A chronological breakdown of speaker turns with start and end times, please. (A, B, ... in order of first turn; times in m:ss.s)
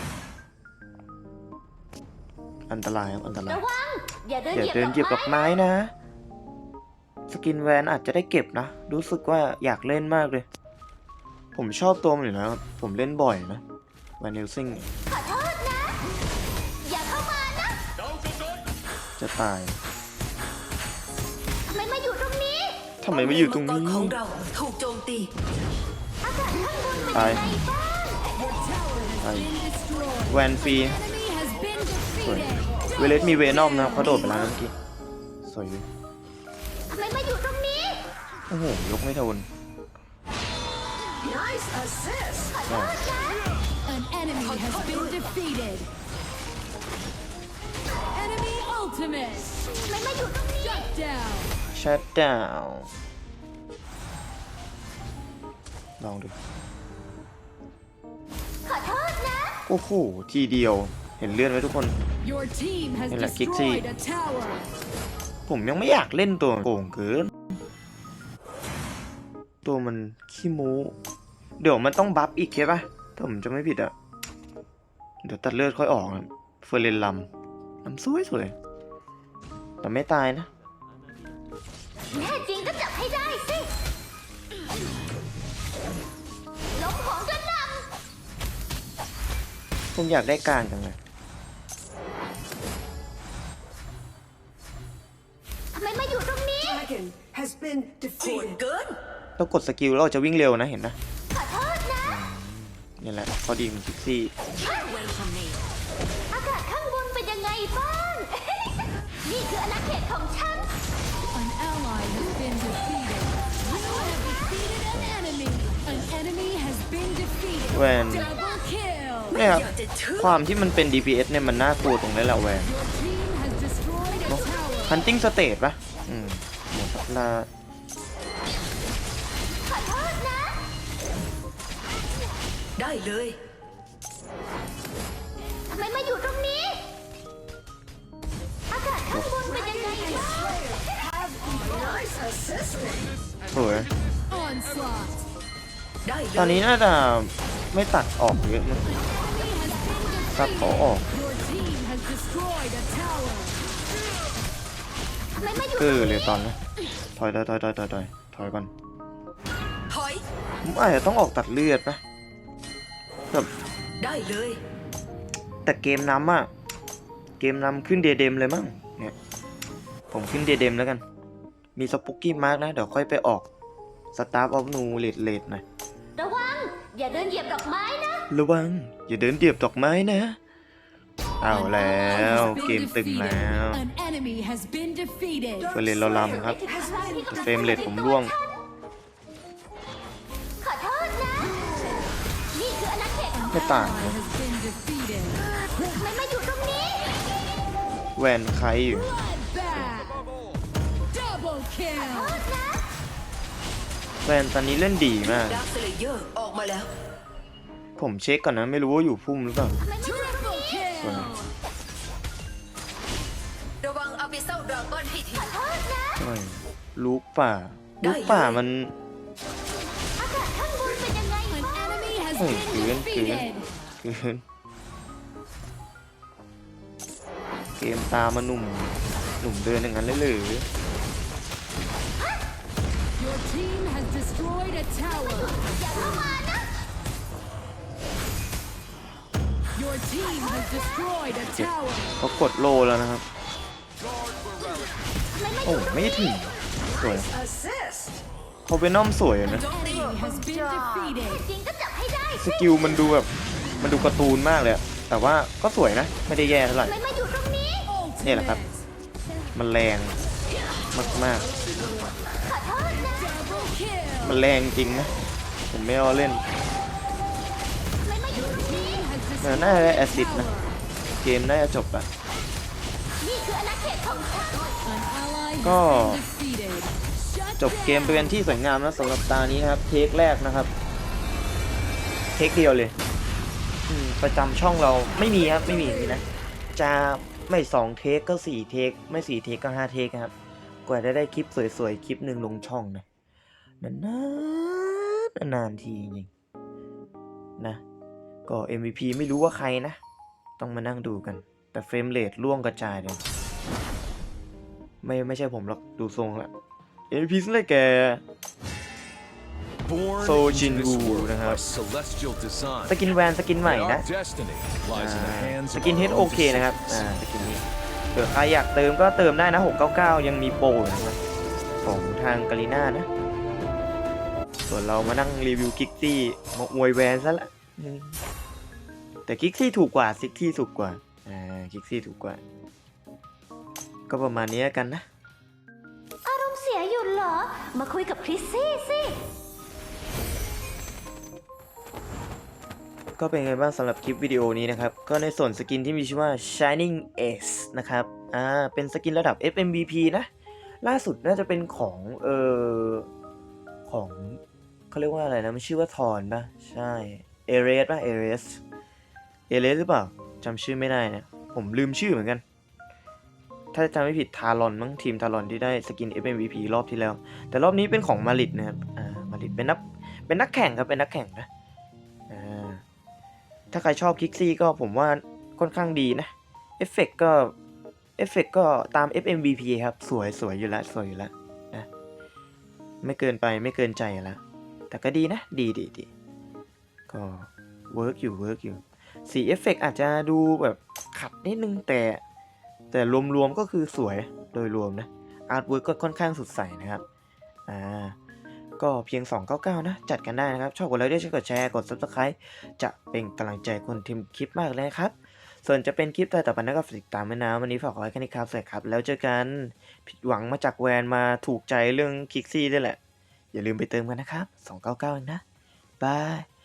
0:02.7-0:03.7 A
0:03.5-0:05.4 B
0:04.5-0:05.9 A
0:07.3-0:10.5 A
0:11.5-0:13.6 A
0:14.2-0:14.9 A
0:15.3-0:15.5 B
0:16.8-0:17.8 B
0:19.2-0:19.8 A
0:21.7-0:22.8 B
0:23.0-0:24.2 A
0:23.1-0:25.3 C
0:26.3-0:28.3 B
0:27.1-0:27.6 A
0:28.5-0:30.2 D
0:29.2-0:29.6 A
0:30.2-0:31.1 A
0:31.0-0:32.2 D
0:32.2-0:34.8 A
0:35.4-0:35.9 A
0:37.0-0:38.0 B
0:38.5-0:39.5 A
0:41.2-0:42.6 C
0:42.7-0:43.1 A
0:43.9-0:45.9 D
0:44.4-0:45.5 C
0:48.1-0:49.7 D
0:50.0-0:50.6 B
0:50.7-0:51.5 D
0:51.7-0:52.9 A
0:56.0-0:56.4 A
0:58.7-0:59.4 B
0:59.7-1:02.0 A
1:02.2-1:04.7 D
1:03.1-1:03.9 A
1:05.5-1:07.5 A
1:09.6-1:10.9 A
1:11.6-1:13.9 A
1:15.2-1:17.3 A
1:17.8-1:18.6 A
1:19.8-1:20.5 A
1:22.1-1:23.7 B
1:26.8-1:27.9 B
1:29.9-1:31.0 A
1:35.8-1:37.0 B
1:38.2-1:39.0 C
1:39.4-1:41.0 A
1:41.4-1:41.9 B
1:42.0-1:44.3 A
1:44.7-1:45.6 C
1:46.3-1:50.7 B
1:51.3-1:57.7 D
1:54.9-1:55.2 A
1:57.7-1:58.3 A
1:58.3-1:59.3 D
1:59.3-2:00.4 C
1:59.3-2:02.7 A
2:02.9-2:04.2 D
2:04.2-2:07.5 A
2:12.8-2:13.4 C
2:15.8-2:16.8 B
2:19.1-2:19.5 A
2:19.5-2:20.8 B
2:21.4-2:23.0 C
2:23.5-2:23.9 A
2:24.3-2:25.1 D
2:26.0-2:26.5 C
2:26.4-2:28.9 A
2:29.7-2:30.1 D
2:30.3-2:31.1 A
2:31.1-2:33.5 D
2:35.7-2:36.6 A
2:37.2-2:38.7 A
2:39.9-2:40.2 C
2:40.6-2:42.0 A
2:44.0-2:44.6 C
2:45.7-2:46.5 A
2:47.4-2:49.1 A
2:50.1-2:51.0 A
2:51.8-2:53.5 A
2:54.1-2:55.6 A
2:56.2-2:58.2 B
2:58.3-3:00.4 A
3:01.4-3:03.9 A
3:02.5-3:05.7 D
3:05.7-3:06.7 A
3:06.6-3:08.0 B
3:07.3-3:08.4 A
3:10.7-3:11.6 B
3:12.5-3:13.4 B
3:13.5-3:14.2 A
3:13.6-3:15.4 D
3:15.9-3:16.9 B
3:18.2-3:19.1 A
3:19.2-3:20.1 D
3:21.1-3:22.4 D
3:24.2-3:25.6 A
3:25.2-3:26.9 C
3:28.0-3:29.8 A
3:30.1-3:31.0 D
3:31.0-3:31.4 A
3:33.8-3:35.6 C
3:36.2-3:38.9 A
3:38.0-3:38.6 C
3:40.9-3:41.3 B
3:41.5-3:43.6 D
3:42.4-3:44.4 A
3:47.8-3:50.7 A
3:53.2-3:55.4 D
3:55.6-3:56.2 B
3:59.8-4:02.1 D
4:01.5-4:03.2 A
4:05.6-4:07.3 A
4:07.4-4:08.1 C
4:08.7-4:09.7 A
4:09.7-4:11.3 C
4:09.7-4:11.4 D
4:11.4-4:12.4 B
4:12.3-4:13.3 A
4:13.8-4:17.0 A
4:17.9-4:18.7 D
4:18.2-4:18.6 A
4:19.5-4:20.2 A
4:20.9-4:21.5 A
4:23.3-4:24.2 D
4:24.2-4:25.2 A
4:25.7-4:26.4 A
4:28.1-4:28.4 B
4:28.6-4:29.4 D
4:29.4-4:30.5 A
4:31.2-4:32.1 A
4:33.2-4:34.8 B
4:35.0-4:37.6 D
4:35.6-4:36.3 A
4:37.6-4:40.7 A
4:42.4-4:43.0 A
4:43.9-4:50.3 A
4:50.9-4:53.0 A
4:53.8-4:56.3 A
4:58.5-5:00.0 A
5:00.6-5:03.2 A
5:05.0-5:06.5 A
5:07.1-5:08.2 A
5:09.9-5:12.9 E
5:10.1-5:11.6 A
5:12.9-5:14.0 A
5:14.1-5:16.8 E
5:14.9-5:21.2 A
5:21.8-5:23.1 A
5:24.7-5:28.2 A
5:29.3-5:32.4 A
5:34.1-5:35.0 A
5:36.2-5:39.2 B
5:43.2-5:50.3 A
5:50.8-5:53.1 A
5:53.9-5:54.4 A
5:54.9-5:58.6 A
5:59.5-6:02.4 A
6:03.7-6:11.5 A
6:12.3-6:12.8 A
6:13.7-6:17.5 A
6:18.2-6:21.9 A
6:23.0-6:26.1 A
6:27.1-6:32.2 A
6:32.9-6:37.0 A
6:37.7-6:38.2 A
6:38.8-6:53.0 A
6:53.5-6:55.4 A
6:56.0-6:56.5 A